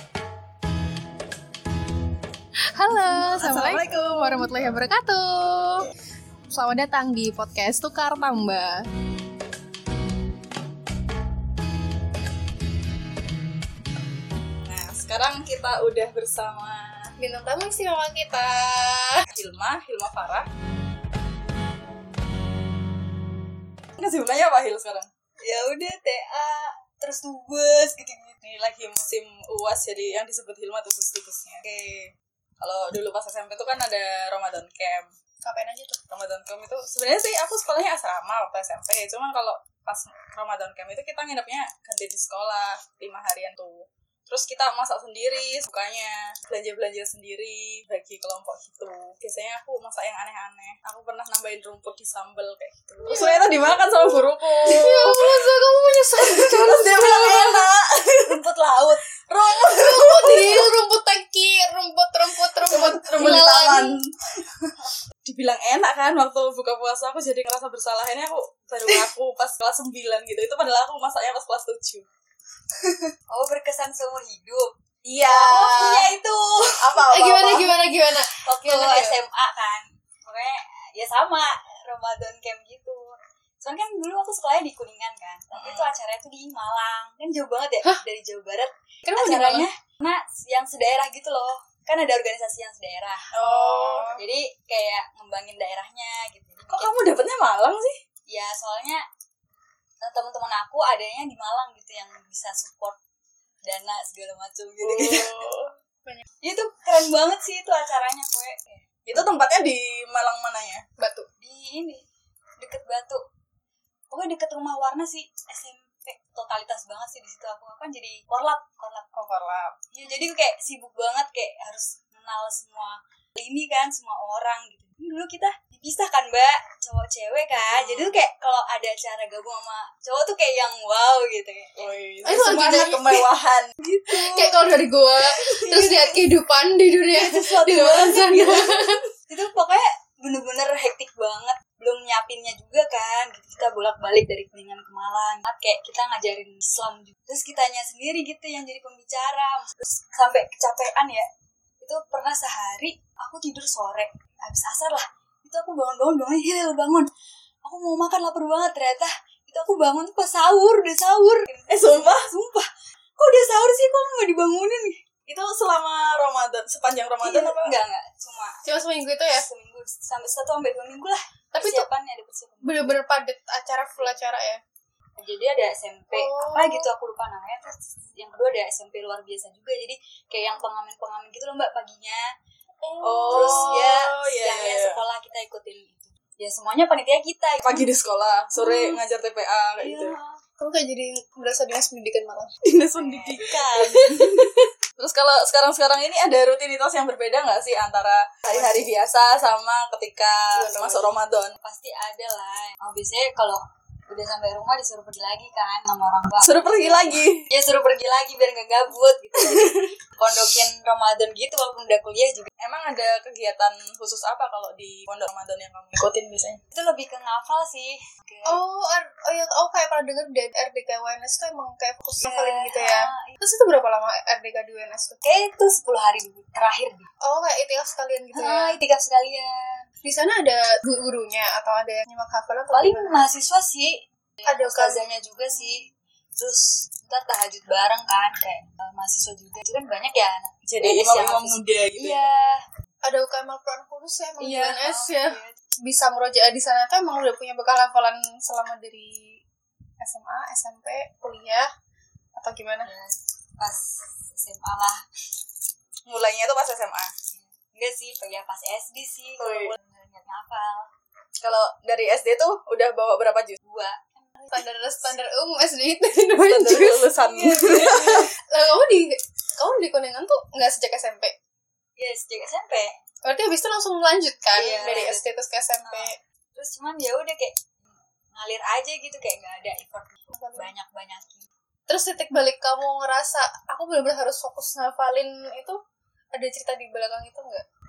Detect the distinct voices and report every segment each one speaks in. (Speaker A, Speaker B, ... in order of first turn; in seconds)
Speaker A: 2.7-5.9, 6.5-8.8, 17.2-19.2, 35.4-36.0, 53.0-57.7, 59.5-63.9, 77.0-79.2, 89.0-89.7, 93.3-94.2, 111.0-111.3, 132.2-133.2, 134.1-139.0, 168.6-169.5, 171.5-171.9, 172.6-174.6, 176.1-176.9, 182.8-183.9, 188.6-189.0, 190.6-192.5, 200.5-201.2, 218.4-225.2, 227.2-228.8, 230.0-233.2, 234.4-235.0, 243.0-249.4, 250.0-251.7, 252.3-252.9, 264.5-271.3, 273.2-276.1, 280.3-280.7, 281.9-285.8, 286.3-287.6
Speaker B: 3.1-4.4, 14.6-17.1, 19.3-20.5, 24.0-25.1, 28.4-35.1, 36.1-55.6, 56.1-58.4, 59.3-60.7, 62.6-64.1, 65.2-72.0, 75.0-76.2, 76.8-77.7, 85.5-85.9, 93.3-94.2, 96.7-98.0, 104.8-105.7, 109.0-110.8, 119.1-119.7, 127.6-128.2, 131.8-133.7, 161.7-162.3, 165.3-167.7, 183.0-185.0, 187.6-190.2, 192.6-201.5, 206.4-207.5, 209.3-209.9, 212.6-216.6, 240.7-242.3, 256.1-257.1, 259.4-259.7, 261.4-263.6, 266.4-268.3
Speaker C: 25.4-28.3, 58.3-59.0, 72.8-74.7, 75.2-77.0, 78.4-93.3, 94.2-97.1, 98.3-99.0, 100.0-103.0, 103.6-105.3, 106.4-108.8, 111.4-112.0, 112.6-113.2, 114.1-119.1, 119.9-133.1, 133.8-134.7, 135.3-136.4, 137.1-151.2, 151.8-157.1, 157.6-165.0, 167.2-168.6, 169.2-173.0, 173.9-174.2, 175.2-182.2, 183.3-187.8, 189.8-190.4, 192.9-194.5, 198.5-198.9, 201.6-212.5, 216.7-218.6, 222.2-223.3, 225.2-227.1, 228.3-229.8, 232.7-242.7, 244.4-245.5, 252.8-255.0, 257.3-260.9, 263.6-265.1, 267.2-268.2, 272.0-272.9, 274.5-275.2, 275.8-277.6, 278.3-281.4